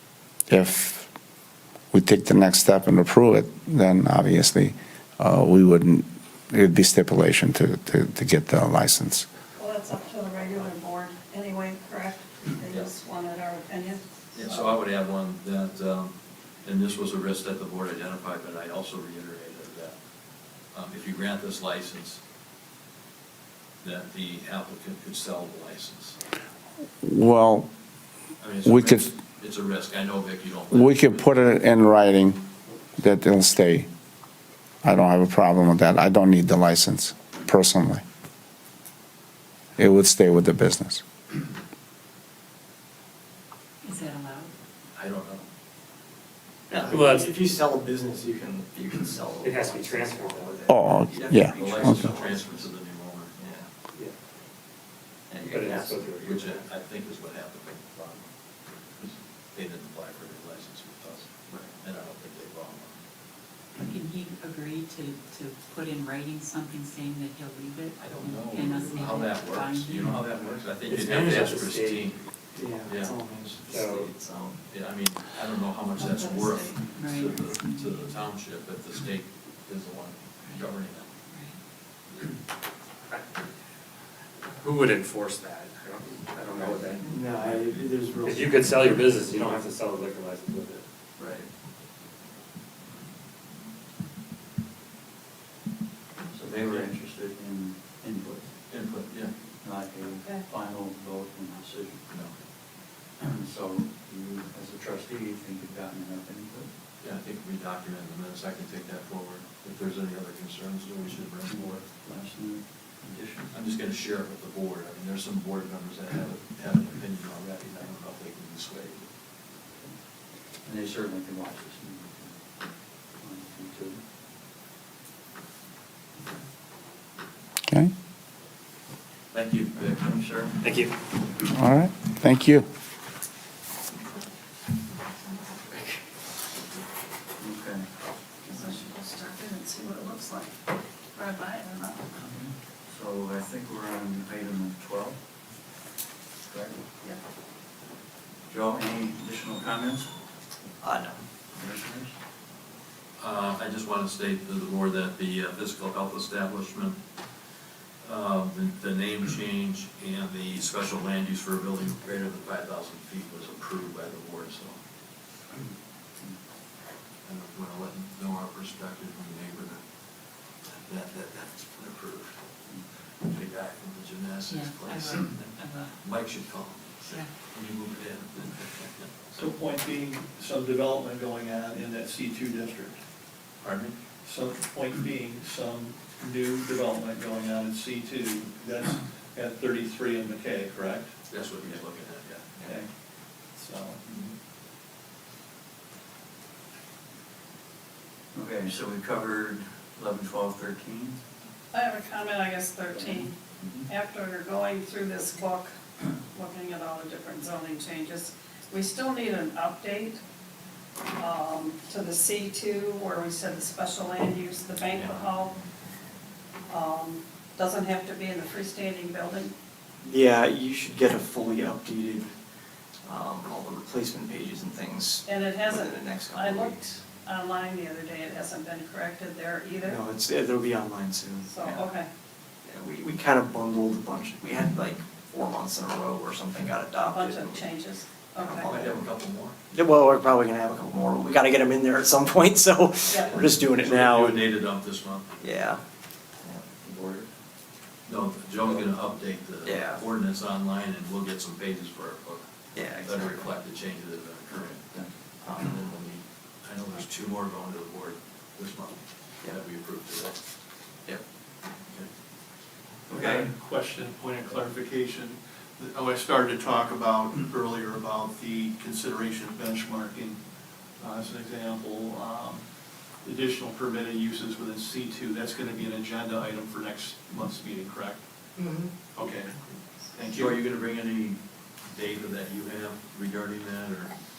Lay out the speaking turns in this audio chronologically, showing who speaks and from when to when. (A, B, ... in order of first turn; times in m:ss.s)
0:00.5-0:01.1 A
0:01.9-0:09.3 A
0:09.6-0:14.7 B
0:14.3-0:20.0 C
0:20.7-0:22.2 C
0:23.8-0:26.2 C
0:27.0-0:27.7 A
0:28.4-0:31.3 C
0:28.6-0:29.1 A
0:30.7-0:32.4 A
0:33.0-0:33.9 A
0:34.8-0:38.0 A
0:39.8-0:41.0 A
0:43.8-0:44.5 D
0:45.0-0:45.4 C
0:46.7-0:52.7 E
0:46.9-0:47.3 F
0:49.4-0:50.6 F
0:50.7-0:51.6 A
0:51.6-0:53.3 C
0:53.4-0:53.7 E
0:55.3-0:56.5 E
0:55.4-0:56.6 F
0:56.2-0:58.3 C
0:59.0-1:03.0 C
1:03.8-1:10.4 D
1:08.0-1:12.2 C
1:10.8-1:12.1 F
1:12.6-1:14.6 E
1:12.8-1:13.2 C
1:13.7-1:14.1 F
1:14.7-1:21.1 C
1:16.0-1:18.2 D
1:21.3-1:21.6 D
1:24.6-1:27.7 F
1:26.5-1:28.7 E
1:28.2-1:30.8 F
1:31.2-1:31.5 E
1:36.3-1:38.5 G
1:38.7-1:39.3 C
1:39.6-1:42.0 G
1:40.2-1:40.5 B
1:43.2-1:46.7 G
1:47.0-1:51.7 C
1:51.5-1:53.5 G
1:53.5-1:59.1 C
2:00.6-2:02.3 G
2:03.2-2:04.0 G
2:07.7-2:07.9 A
2:09.3-2:09.9 C
2:09.7-2:10.6 G
2:10.6-2:10.9 F
2:11.4-2:12.6 A
2:17.4-2:17.8 G
2:18.4-2:20.6 B
2:21.1-2:22.1 B
2:22.2-2:25.2 G
2:26.5-2:26.8 G
2:28.5-2:30.1 G
2:30.8-2:31.2 E
2:31.6-2:32.1 G
2:33.2-2:37.0 C
2:38.0-2:44.8 C
2:47.2-2:49.8 C
2:50.6-2:52.4 C
2:53.2-2:59.4 C
2:54.5-2:56.0 D
2:57.0-2:57.3 D
2:59.4-3:02.9 H
3:03.6-3:04.0 C
3:04.2-3:11.1 H
3:11.3-3:12.5 C
3:13.6-3:14.0 H
3:14.1-3:14.3 C
3:18.3-3:21.2 G
3:21.7-3:23.4 B
3:22.9-3:23.9 G
3:23.9-3:25.7 B
3:26.3-3:30.2 B
3:31.2-3:35.6 B
3:36.7-3:39.5 B
3:40.0-3:42.3 E
3:43.0-3:46.8 E
3:45.2-3:50.0 B
3:49.8-3:51.9 E
3:51.4-3:52.1 B
3:52.6-3:57.7 E
3:57.0-3:58.7 B
3:58.4-3:59.1 E
3:58.6-3:59.6 C
3:59.7-4:04.5 E
4:03.1-4:03.5 B
4:03.1-4:05.3 C
4:05.4-4:05.8 E
4:06.4-4:06.8 E
4:06.8-4:07.3 G
4:08.1-4:14.8 C
4:09.6-4:10.0 E
4:12.8-4:13.5 E
4:14.5-4:14.8 E
4:15.4-4:16.2 E
4:16.6-4:20.4 C
4:23.1-4:23.5 E
4:23.1-4:30.4 H
4:31.0-4:32.6 H
4:33.2-4:38.2 H
4:38.6-4:39.1 E
4:39.2-4:39.5 H
4:40.1-4:40.6 H
4:40.3-4:44.2 C